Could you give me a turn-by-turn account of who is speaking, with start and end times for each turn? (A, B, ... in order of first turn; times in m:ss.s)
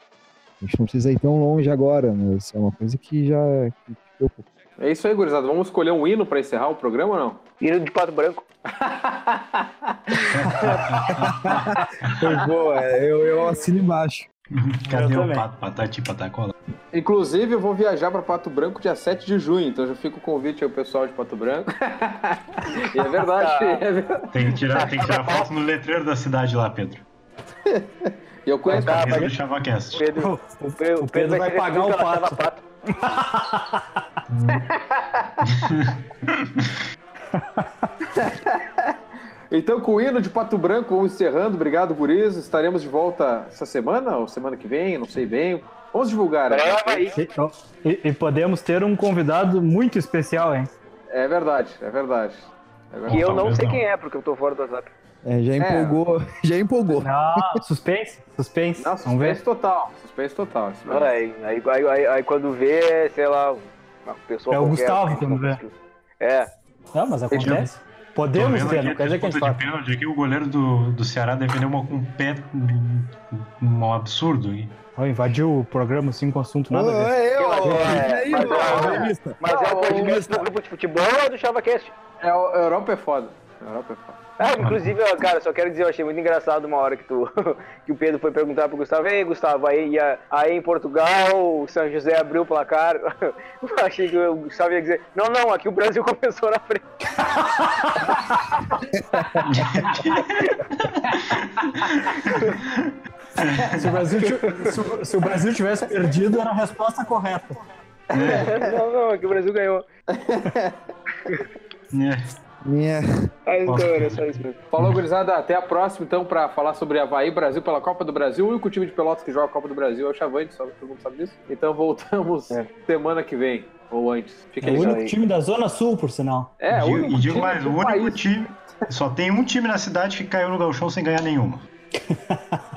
0:00.6-0:04.4 A
0:04.8-0:07.4 B
0:07.6-0:08.4 C
0:08.8-0:10.8 B
0:10.3-0:12.2 D
0:11.3-0:14.3 A
0:14.5-0:16.5 D
0:14.9-0:15.4 E
0:16.9-0:24.8 B
0:23.3-0:23.8 C
0:24.3-0:27.0 D
0:24.8-0:25.5 C
0:28.4-0:29.3 B
0:28.7-0:29.3 C
0:28.7-0:30.0 D
0:30.0-0:32.6 C
0:30.1-0:33.8 E
0:34.3-0:34.6 D
0:34.5-0:35.6 B
0:35.4-0:36.7 D
0:37.3-0:37.6 E
0:38.1-0:38.9 B
0:39.5-0:47.1 B
0:46.5-0:47.1 C
0:47.1-0:50.7 E
0:51.1-0:53.4 B
0:53.1-0:53.8 D
0:53.1-0:54.9 C
0:55.2-0:57.4 A
0:55.6-0:56.0 B
0:57.0-0:59.4 E
0:58.8-1:01.2 B
1:00.9-1:06.5 C
1:04.5-1:05.6 E
1:06.9-1:09.6 E
1:07.3-1:07.7 D
1:08.3-1:14.8 D
1:14.9-1:17.2 E
1:16.7-1:20.5 A
1:17.4-1:21.9 C
1:17.6-1:20.2 B
1:22.2-1:24.3 B
1:24.4-1:36.8 C
1:24.6-1:24.9 D
1:37.2-1:38.6 E
1:39.1-1:39.4 A
1:39.4-1:44.0 D
1:40.1-1:40.6 C
1:43.8-1:47.6 E
1:48.1-1:48.6 B
1:48.1-1:48.5 D
1:48.3-1:49.8 C
1:50.1-1:50.8 B
1:51.9-1:52.3 D
1:52.6-1:53.3 A
1:53.4-1:54.6 C
1:53.6-1:55.0 D
1:54.7-2:05.0 B
2:04.6-2:06.6 E
2:04.6-2:05.2 C
2:06.6-2:08.2 B
2:06.7-2:11.7 D
2:12.1-2:12.6 E